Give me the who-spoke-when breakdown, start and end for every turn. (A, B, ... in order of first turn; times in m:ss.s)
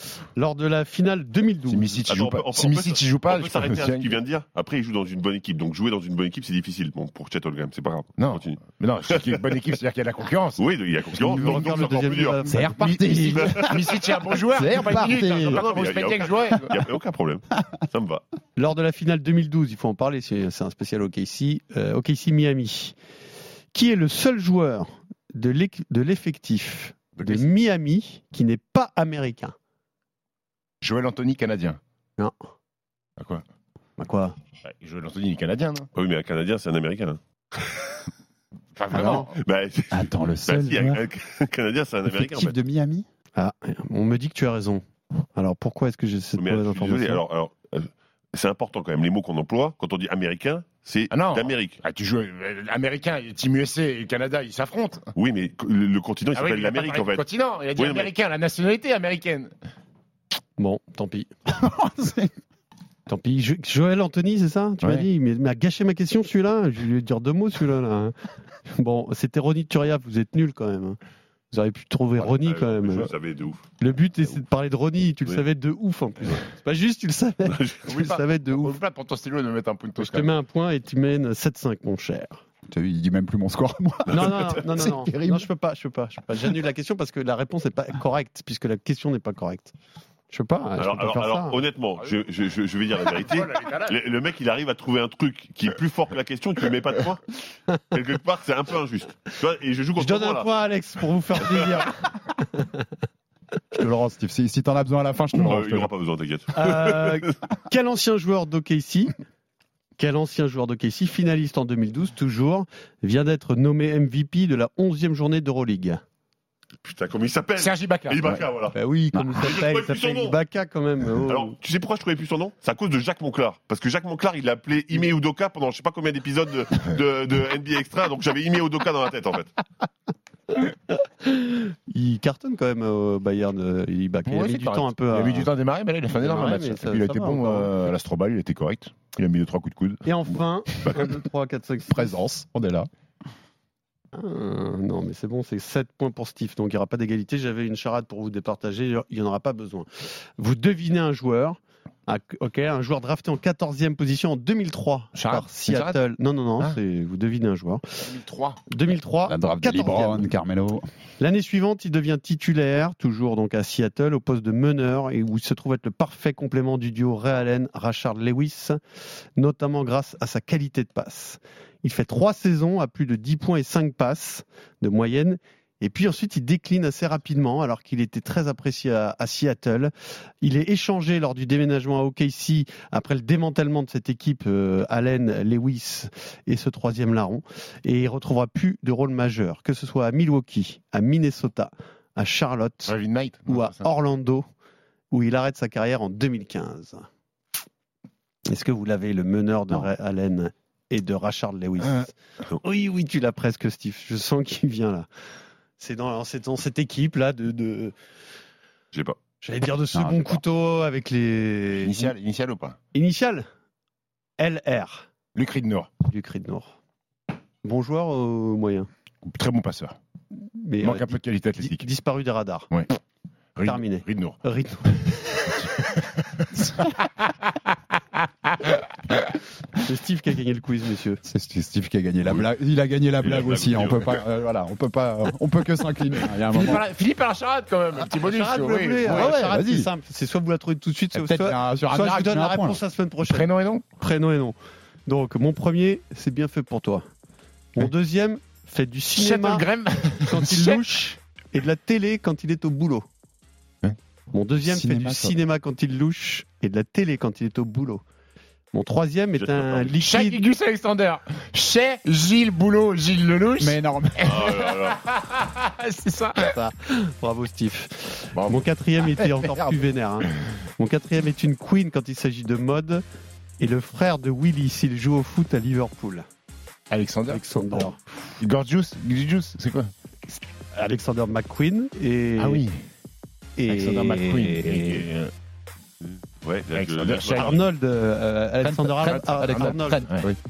0:00.4-0:02.0 A
0:01.7-0:04.2 B
0:02.1-0:09.6 C
0:08.2-0:11.9 B
0:10.6-0:12.4 C
0:11.3-0:12.8 A
0:12.4-0:15.7 D
0:12.8-0:16.8 B
0:13.1-0:14.4 C
0:15.4-0:18.2 C
0:18.6-0:23.0 A
0:23.7-0:29.6 A
0:27.2-0:27.5 B
0:30.8-0:31.8 B
0:33.2-0:33.4 B
0:34.0-0:34.4 A
0:34.6-0:35.9 B
0:35.9-0:38.0 C
0:38.8-0:39.3 B
0:38.9-0:39.3 A
0:39.0-0:42.6 C
0:39.9-0:41.0 D
0:42.0-0:43.0 D
0:43.3-0:44.8 A
0:45.4-0:47.2 A
0:46.4-0:51.8 C
0:51.1-0:55.1 B
0:55.2-0:58.1 C
0:56.3-0:59.5 B
1:00.6-1:01.3 A
1:01.5-1:02.3 D
1:03.1-1:08.1 A
1:08.7-1:11.0 A
1:11.5-1:13.1 A
1:12.2-1:13.6 C
1:13.8-1:18.8 A
1:17.4-1:17.8 C
1:17.9-1:20.3 B
1:20.0-1:22.4 A
1:22.7-1:25.5 D
1:24.1-1:24.6 C
1:24.1-1:29.7 A
1:30.3-1:31.6 A
1:30.8-1:40.5 C
1:33.1-1:34.0 B
1:40.0-1:42.8 A
1:43.7-1:45.9 D
1:45.4-1:47.3 C
1:46.6-1:49.1 A
1:50.0-1:56.0 A
1:56.8-1:58.7 C
1:57.6-1:58.4 B
1:58.7-2:01.6 A
1:59.4-2:00.4 C
2:01.3-2:09.5 C
2:11.2-2:15.5 A
2:14.3-2:20.0 B
2:16.1-2:17.7 A
2:20.0-2:22.2 A
2:20.8-2:21.1 B
2:21.9-2:22.9 D
2:24.1-2:38.0 A
2:35.1-2:36.0 B
2:38.0-2:38.6 B
2:38.7-2:40.3 A
2:39.3-2:40.9 D
2:41.2-2:48.8 A
2:49.4-3:12.9 A
3:12.9-3:13.9 B
3:13.4-3:14.5 A
3:15.1-3:17.0 A
3:18.5-3:25.1 A
3:25.8-3:27.9 A
3:29.4-3:32.1 A
3:29.9-3:30.4 B
3:31.8-3:32.8 B
3:32.9-3:33.5 A
3:34.4-3:35.1 A
3:35.3-3:35.9 B
3:36.1-3:36.7 A
3:37.6-3:38.9 A
3:39.3-3:40.0 B
3:40.6-3:42.7 A
3:40.8-3:41.9 B
3:43.6-3:44.4 B
3:43.6-3:45.0 A
3:44.9-3:47.5 B
3:48.4-3:49.3 B
3:49.8-3:51.2 A
3:51.2-3:56.8 D
3:53.2-3:54.2 B
3:56.4-3:59.4 B
3:58.0-4:04.6 A
3:59.0-3:59.9 D
4:01.1-4:02.8 D
4:03.3-4:03.9 B
4:05.1-4:07.0 A
4:07.7-4:09.6 A
4:09.1-4:10.9 B
4:10.3-4:13.0 A
4:14.3-4:18.0 A
4:14.6-4:15.4 D
4:18.7-4:20.4 A
4:19.4-4:19.9 C
4:19.9-4:26.5 B
4:23.6-4:24.4 D
4:24.2-4:25.0 C
4:26.4-4:33.0 A
4:28.3-4:28.6 B
4:33.6-4:36.3 A
4:36.9-4:39.9 B
4:37.3-4:38.0 A
4:40.3-4:42.6 A
4:42.4-4:42.8 B
4:43.6-4:45.0 A
4:43.7-4:45.3 B
4:46.0-4:47.6 C
4:46.7-4:47.6 B
4:47.4-4:50.1 A
4:48.6-4:50.4 D
4:49.1-4:50.3 B